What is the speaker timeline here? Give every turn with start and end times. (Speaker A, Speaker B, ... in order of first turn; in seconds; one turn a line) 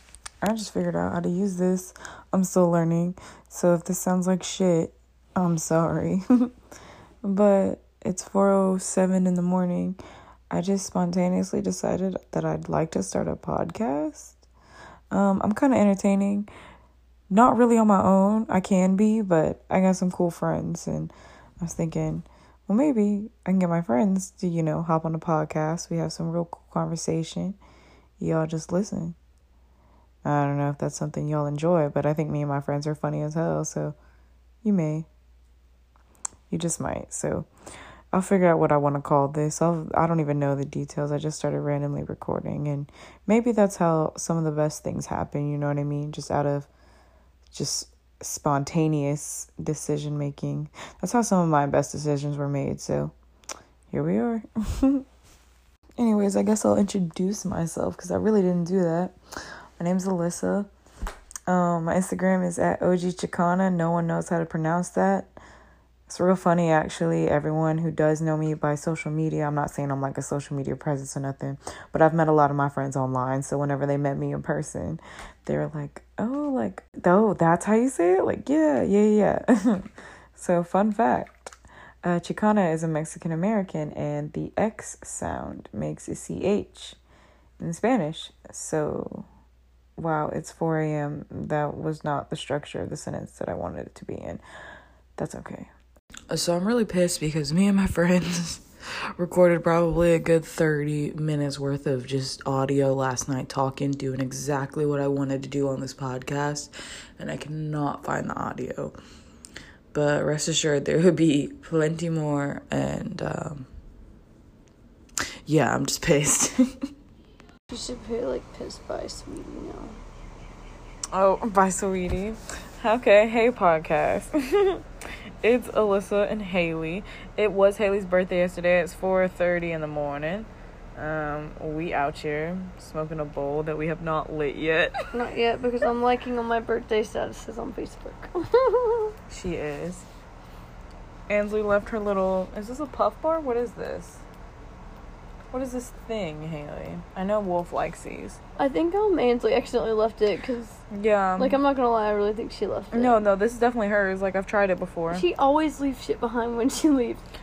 Speaker A: 0.4-6.5
Speaker A: 7.2-10.0
Speaker A: 10.5-14.4
Speaker A: 15.1-16.5
Speaker A: 17.3-27.6
Speaker A: 28.2-29.2
Speaker A: 30.2-34.0
Speaker A: 34.6-35.1
Speaker A: 36.5-37.5
Speaker A: 38.1-46.7
Speaker A: 47.5-53.1
Speaker A: 53.9-55.0
Speaker A: 56.0-60.7
Speaker A: 61.5-65.3
Speaker A: 66.1-87.0
Speaker A: 87.6-89.3
Speaker A: 90.0-94.4
Speaker A: 95.2-95.7
Speaker A: 96.3-98.6
Speaker A: 99.2-108.9
Speaker A: 109.9-113.6
Speaker A: 115.5-116.5
Speaker B: 117.7-120.0
Speaker A: 121.1-134.9
Speaker B: 135.1-139.2
Speaker A: 139.3-140.1
Speaker A: 141.3-144.2
Speaker A: 145.5-148.4
Speaker B: 148.6-150.8
Speaker A: 150.9-151.6
Speaker B: 151.4-153.2
Speaker A: 152.9-155.2
Speaker B: 155.1-157.2